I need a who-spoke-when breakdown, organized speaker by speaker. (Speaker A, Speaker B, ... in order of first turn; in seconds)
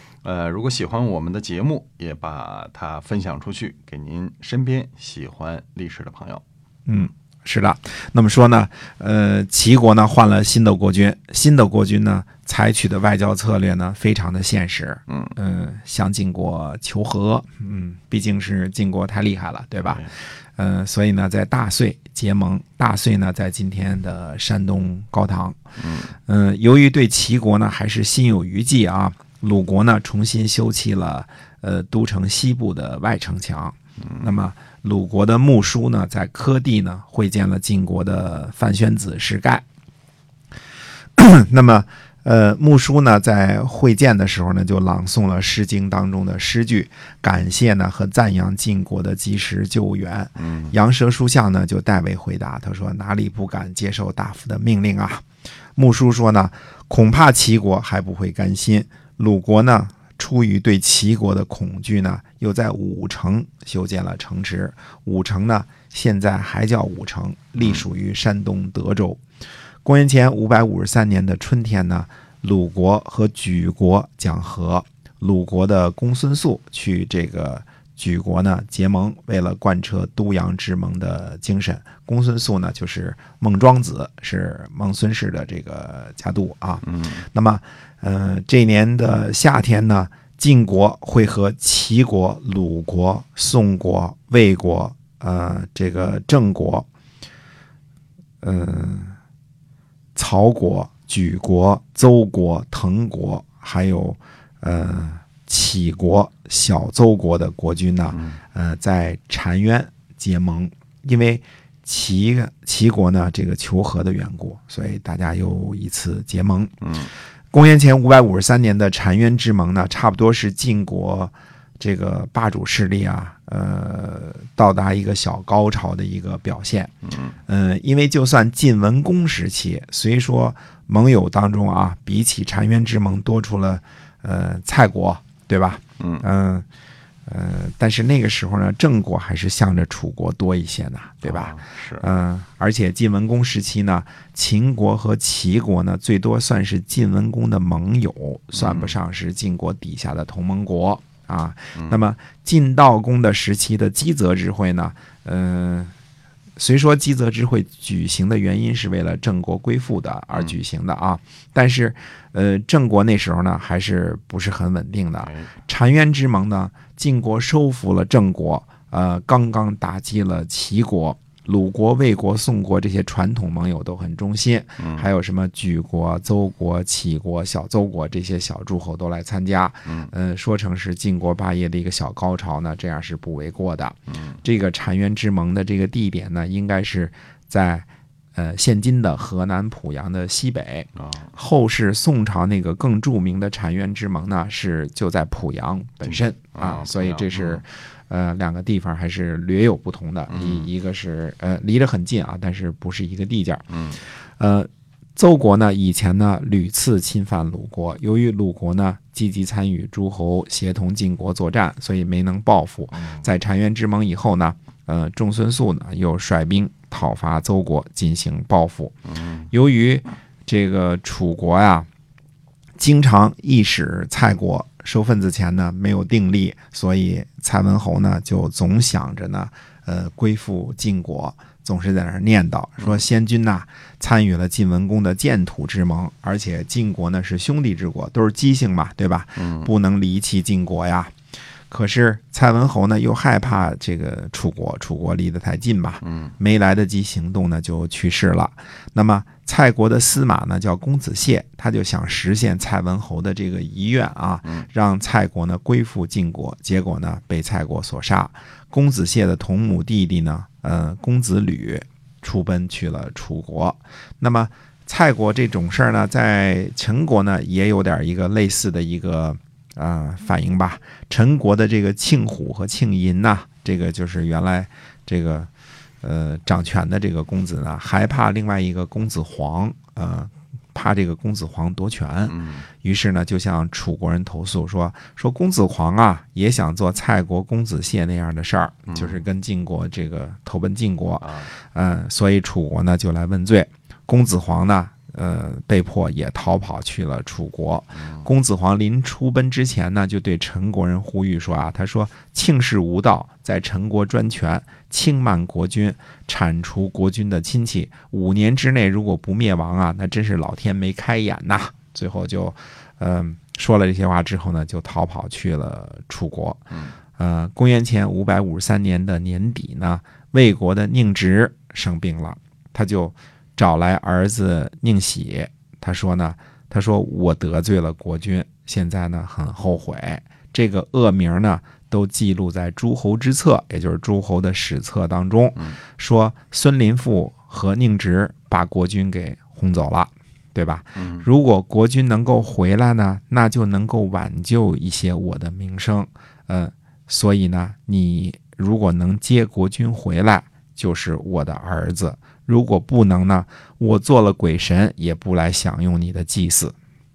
Speaker A: 0.2-6.4, 15.1-15.3, 19.8-20.1, 25.8-26.1, 34.0-34.3, 50.4-50.7, 86.8-87.2, 108.1-108.4, 116.8-117.1, 127.1-127.3, 136.0-136.2, 141.2-142.0, 148.5-149.0, 151.8-152.0, 165.2-165.5, 174.8-175.1, 179.8-180.1, 191.0-191.3, 196.0-197.6, 200.3-200.7, 203.7-204.0, 219.2-219.4, 239.4-239.7, 246.0-246.3, 282.3-282.7, 288.9-289.2, 291.2-291.5, 297.9-298.3, 341.0-341.3
Speaker B: 6.9-20.1, 20.6-25.6, 26.2-39.6, 41.2-55.2, 55.8-69.2, 69.8-96.8, 98.4-99.1, 100.1-116.7, 117.5-126.9, 127.5-136.7, 137.3-155.9, 156.6-203.7, 204.4-218.9, 219.5-221.9, 222.8-241.1, 241.7-275.5, 276.0-316.6, 317.2-356.7